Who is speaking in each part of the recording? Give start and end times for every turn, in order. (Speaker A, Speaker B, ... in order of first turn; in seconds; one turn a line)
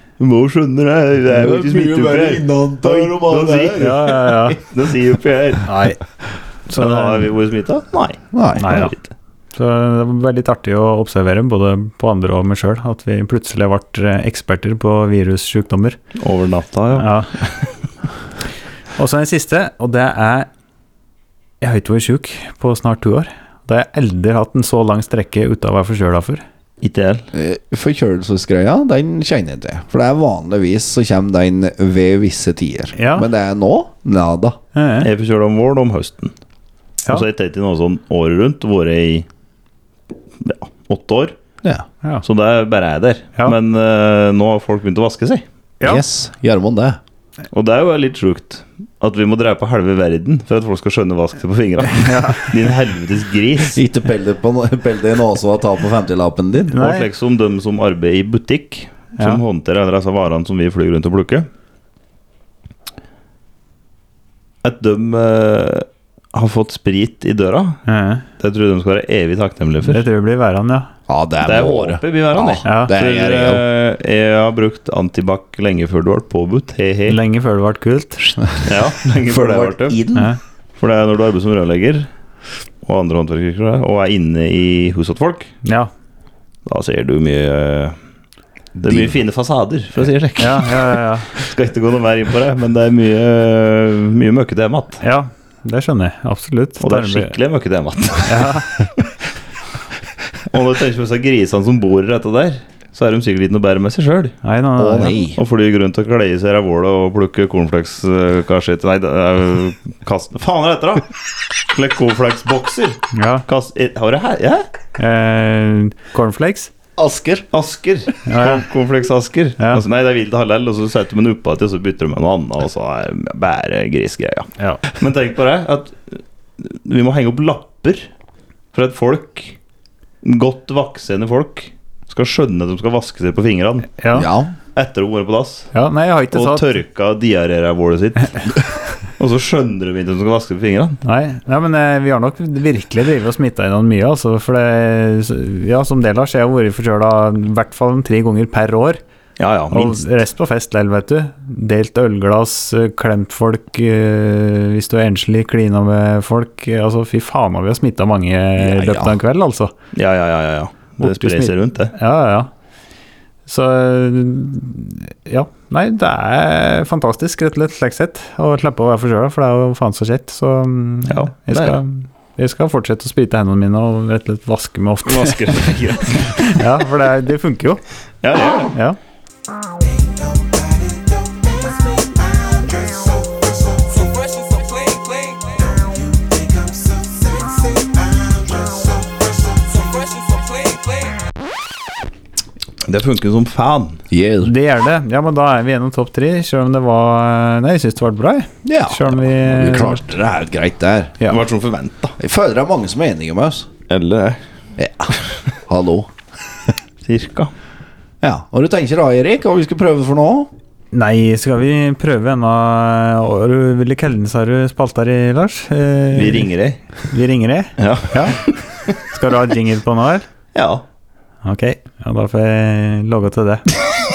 Speaker A: 0.2-5.7
Speaker B: 1.3-4.0
Speaker C: 3.8-4.6
Speaker C: 5.7-6.0
Speaker C: 6.7-7.3
Speaker A: 6.7-9.1
Speaker B: 8.3-8.9
Speaker C: 8.6-8.9
Speaker C: 9.5-16.0
Speaker A: 16.2-17.7
Speaker C: 16.9-17.4
Speaker C: 19.0-20.5
Speaker C: 21.6-26.4
Speaker A: 26.8-27.3
Speaker B: 27.3-34.6
Speaker C: 33.0-33.3
Speaker C: 34.8-35.1
Speaker A: 35.0-36.3
Speaker A: 37.1-39.3
Speaker A: 40.4-41.4
Speaker A: 42.2-45.5
Speaker B: 45.8-47.0
Speaker A: 47.5-53.8
Speaker C: 52.0-52.6
Speaker B: 53.6-56.8
Speaker C: 56.7-57.1
Speaker A: 56.8-61.5
Speaker A: 64.6-67.8
Speaker C: 67.9-68.3
Speaker A: 68.4-70.0
Speaker C: 69.8-70.9
Speaker B: 71.1-73.6
Speaker A: 71.4-77.2
Speaker C: 72.7-72.9
Speaker C: 77.1-78.5
Speaker A: 78.6-80.0
Speaker B: 79.2-80.3
Speaker A: 80.8-82.1
Speaker A: 82.8-85.5
Speaker C: 85.7-85.9
Speaker A: 86.7-88.0
Speaker B: 88.8-89.2
Speaker A: 88.8-90.8
Speaker C: 90.4-91.3
Speaker A: 91.3-95.0
Speaker C: 95.0-97.3
Speaker A: 96.8-98.5
Speaker C: 98.3-98.7
Speaker A: 100.5-104.3
Speaker C: 104.4-105.2
Speaker B: 104.8-105.4
Speaker A: 105.4-111.1
Speaker A: 111.7-114.7
Speaker C: 113.1-113.5
Speaker C: 115.0-116.7
Speaker B: 117.0-117.5
Speaker A: 117.5-128.1
Speaker C: 118.3-118.7
Speaker A: 128.7-129.6
Speaker A: 130.2-133.9
Speaker C: 134.0-134.3
Speaker B: 134.1-134.5
Speaker A: 134.8-135.7
Speaker C: 135.7-136.8
Speaker A: 136.3-138.5
Speaker A: 139.2-141.0
Speaker C: 141.0-149.0
Speaker A: 149.4-150.0
Speaker C: 149.7-159.7
Speaker B: 158.6-159.2
Speaker A: 159.9-161.9
Speaker C: 161.0-162.5
Speaker C: 163.5-177.8
Speaker A: 171.1-171.8
Speaker A: 175.1-176.6
Speaker A: 178.2-178.7
Speaker C: 178.6-179.0
Speaker A: 192.8-194.0
Speaker B: 194.1-194.5
Speaker C: 194.4-200.1
Speaker B: 198.7-201.2
Speaker A: 201.3-202.2
Speaker B: 202.2-203.7
Speaker A: 203.9-204.4
Speaker B: 204.8-206.1
Speaker A: 207.1-207.5
Speaker B: 208.2-210.5
Speaker C: 210.9-216.5
Speaker A: 216.1-216.8
Speaker C: 217.0-220.3
Speaker A: 217.8-218.6
Speaker A: 220.6-220.8
Speaker C: 221.4-223.7